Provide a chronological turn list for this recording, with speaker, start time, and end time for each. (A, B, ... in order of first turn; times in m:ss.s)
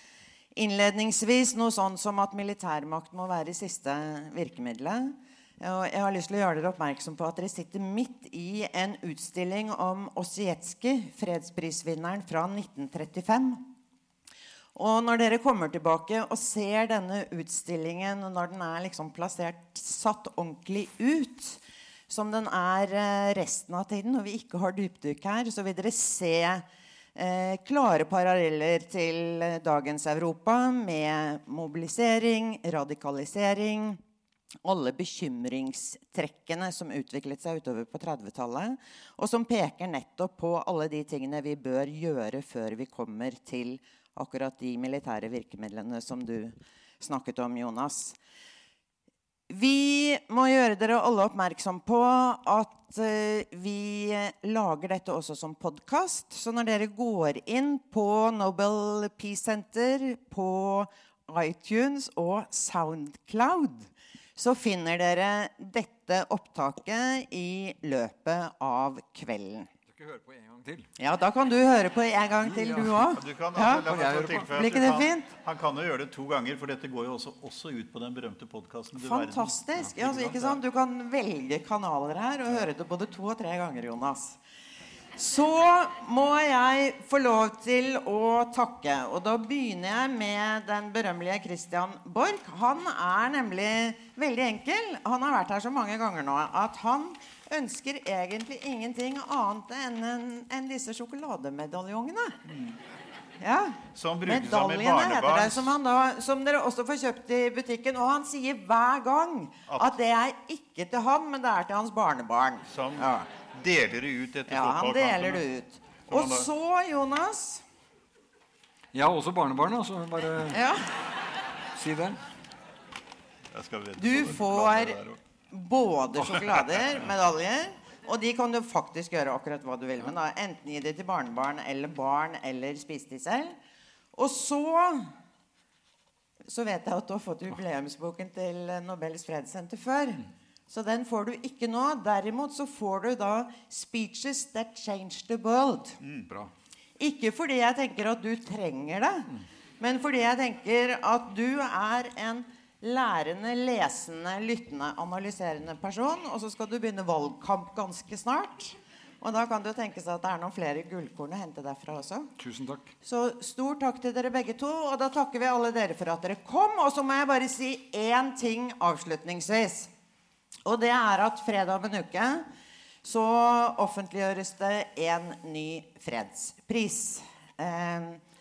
0:00.6-0:13.7 A
0:14.7-0:34.0 A
0:34.6-0:48.2 A
0:49.5-1:09.7 A
1:09.9-1:10.9 B
1:11.0-1:13.9 A
1:12.4-1:20.6 C
1:13.9-1:14.5 B
1:14.5-1:15.3 A
1:19.0-1:24.4 A
1:25.2-1:42.4 A
1:42.4-1:42.8 C
1:43.4-1:53.3 A
1:43.9-1:45.8 C
1:49.7-1:50.0 C
1:52.7-1:55.4 C
1:54.5-1:57.6 A
1:56.1-1:56.5 C
1:58.9-2:00.6 B
2:00.5-2:00.9 A
2:01.7-2:02.2 B
2:03.5-2:05.2 C
2:04.0-2:05.0 A
2:05.5-2:13.6 A
2:14.1-2:15.1 A
2:16.4-2:26.0 A
2:26.2-2:26.5 B
2:27.0-2:42.3 A
2:42.4-2:42.9 B
2:43.0-2:49.9 A
2:50.6-2:52.5 A
2:53.0-2:58.2 A